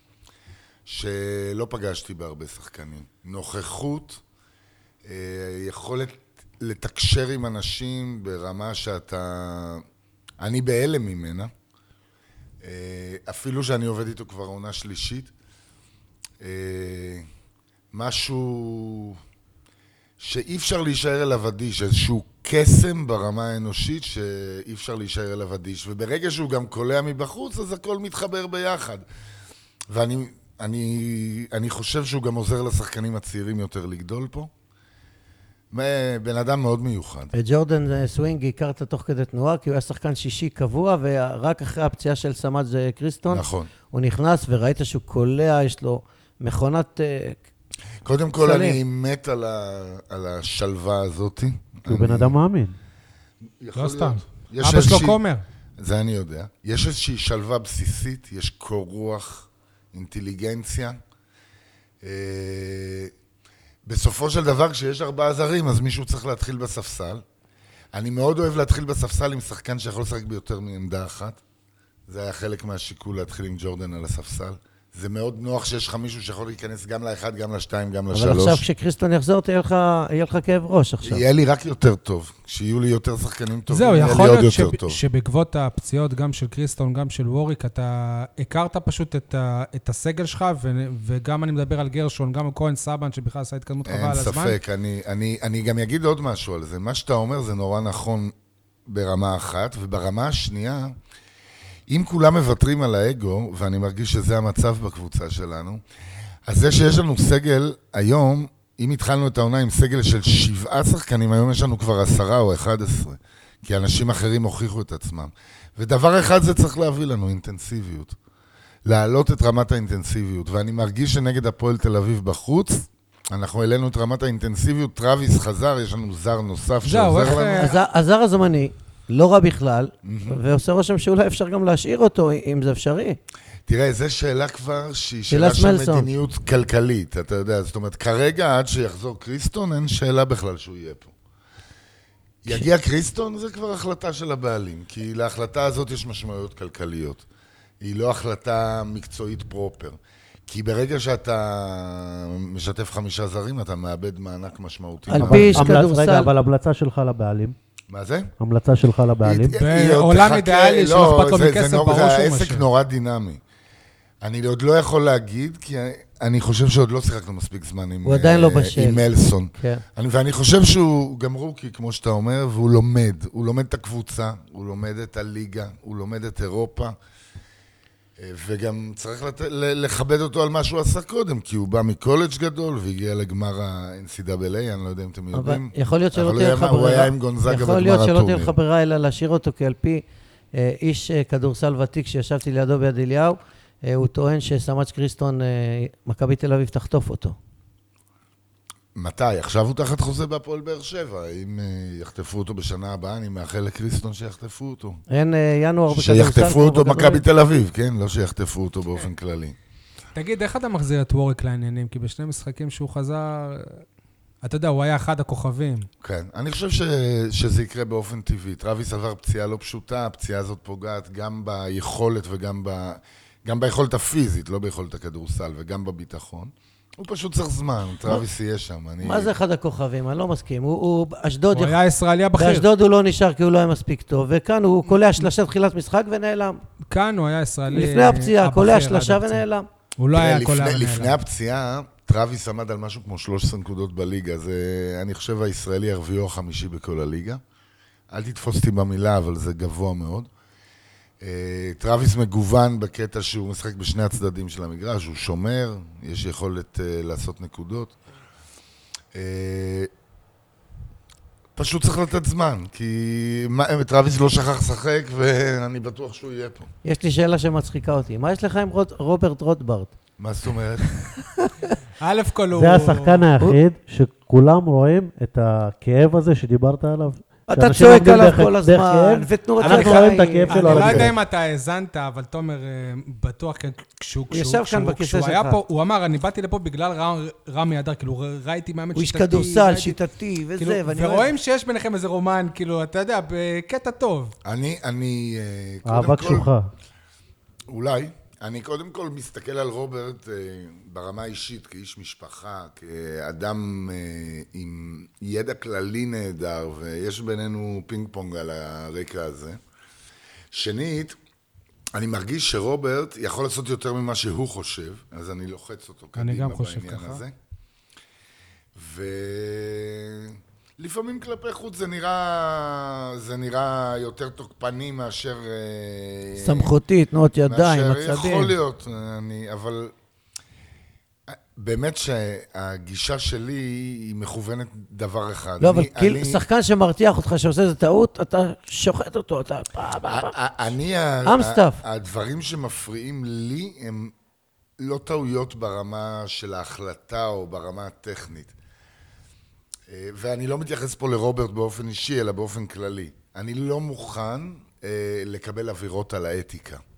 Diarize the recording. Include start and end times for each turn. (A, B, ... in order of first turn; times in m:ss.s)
0:00.8-0:04.2 A
0:05.0-0:09.8 A
0:10.4-0:11.5 A
0:12.6-0:15.3 A
0:16.4-0:17.3 A
0:17.9-0:19.2 A
0:20.2-0:29.0 A
0:29.9-0:34.5 A
0:35.7-0:37.3 A
0:37.3-0:47.4 B
0:43.3-0:43.7 A
0:48.0-0:52.4 A
0:48.4-0:48.8 B
0:51.8-0:52.8 C
0:53.6-0:55.2 A
0:53.7-0:55.4 D
0:55.8-1:01.0 A
1:02.0-1:03.1 A
1:03.8-1:07.2 A
1:07.9-1:11.4 A
1:12.1-1:18.6 A
1:18.1-1:21.2 B
1:21.0-1:25.0 A
1:23.7-1:34.6 D
1:33.8-1:38.3 A
1:38.9-1:40.9 A
1:41.9-1:45.8 A
1:46.5-1:58.2 A
1:58.8-2:07.7 A
2:06.8-2:07.7 D
2:07.2-2:13.2 B
2:10.0-2:10.4 A
2:13.7-2:21.1 A
2:15.3-2:16.1 B
2:22.4-2:27.2 A
2:27.8-2:35.8 A
2:35.1-2:36.3 B
2:35.2-2:37.6 C
2:37.9-2:38.3 A
2:38.4-2:39.6 C
2:39.2-2:43.4 A
2:39.5-2:42.6 D
2:44.2-2:56.9 A
2:48.0-2:49.0 B
2:49.6-2:49.8 B
2:58.2-3:08.5 A
3:05.3-3:10.0 B
3:10.5-3:17.3 B
3:18.9-3:25.0 A
3:25.1-3:27.2 B
3:25.9-3:29.6 A
3:30.1-3:33.8 D
3:34.4-3:35.9 D
3:36.0-3:49.3 A
3:49.0-3:51.8 B
3:51.5-3:52.7 D
3:52.3-3:56.6 B
3:56.9-3:59.4 D
3:57.7-3:59.7 B
4:00.0-4:01.2 D
4:00.1-4:07.4 A
4:08.1-4:10.3 A
4:11.2-4:18.0 A
4:19.1-4:19.9 A
4:21.5-4:26.7 A
4:26.8-4:29.9 B
4:30.2-4:31.0 A
4:32.0-4:33.2 D
4:32.5-4:41.1 C
4:37.5-4:40.9 B
4:39.6-4:50.0 D
4:40.7-4:41.1 A
4:44.3-4:45.6 B
4:48.9-4:51.3 B
4:50.6-4:54.3 D
4:54.4-4:56.5 A
4:55.8-4:56.7 C
4:57.7-5:09.6 A
5:10.5-5:11.2 A
5:11.9-5:17.3 A
5:16.2-5:17.2 D
5:18.7-5:26.7 A
5:26.4-5:28.5 B
5:27.5-5:29.9 A
5:31.3-5:36.4 A
5:35.6-5:40.4 B
5:40.0-5:44.1 A
5:41.2-5:41.8 B
5:44.8-5:48.5 A
5:49.9-5:56.8 A